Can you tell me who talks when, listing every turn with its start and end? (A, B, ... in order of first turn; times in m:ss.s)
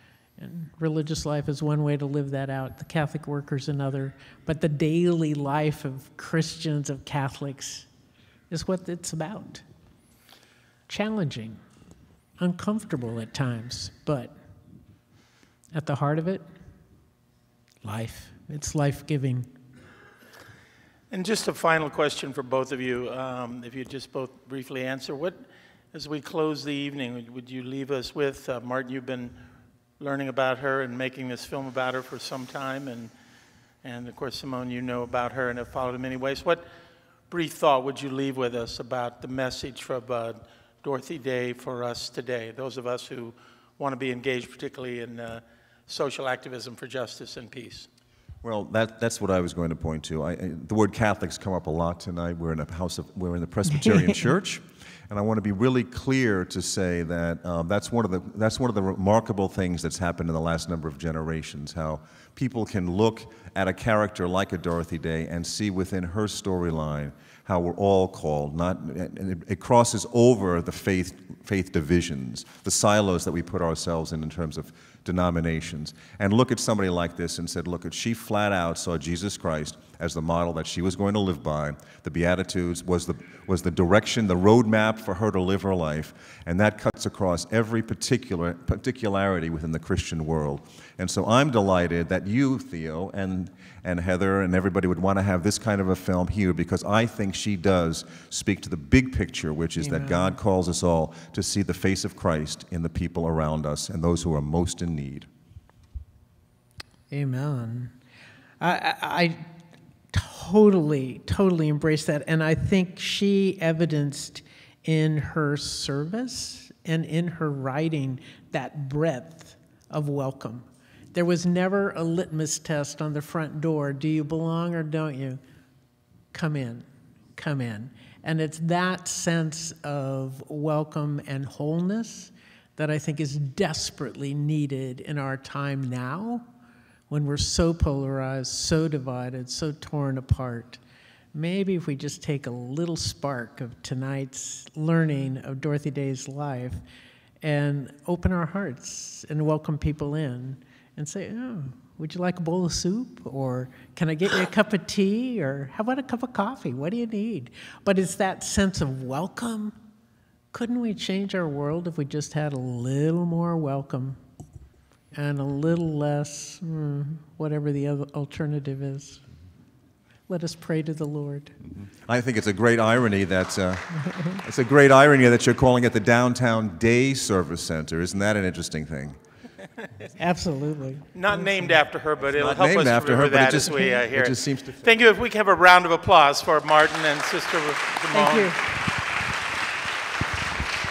0:00.4-0:07.9 A
0:08.5-0:09.6 A
0:10.9-0:11.6 A
0:12.4-0:14.4 A
0:15.7-0:16.4 A
0:17.8-0:19.5 A
0:21.1-0:29.4 B
0:30.0-0:33.1 B
0:33.8-0:36.7 B
0:37.3-0:47.9 B
0:48.4-1:45.3 C
1:39.8-1:40.4 A
1:47.1-1:47.9 A
1:48.6-1:49.4 A
1:50.1-2:05.4 A
2:06.3-2:16.4 A
2:17.1-2:20.8 A
2:21.3-2:26.8 A
2:27.4-2:39.8 A
2:40.5-2:44.2 A
2:45.1-2:49.2 A
2:50.3-2:51.6 A
2:51.8-2:59.2 C
2:54.1-2:54.4 A
3:00.2-3:01.8 A
3:01.2-3:08.6 B
3:02.4-3:04.8 C
3:08.1-3:08.6 A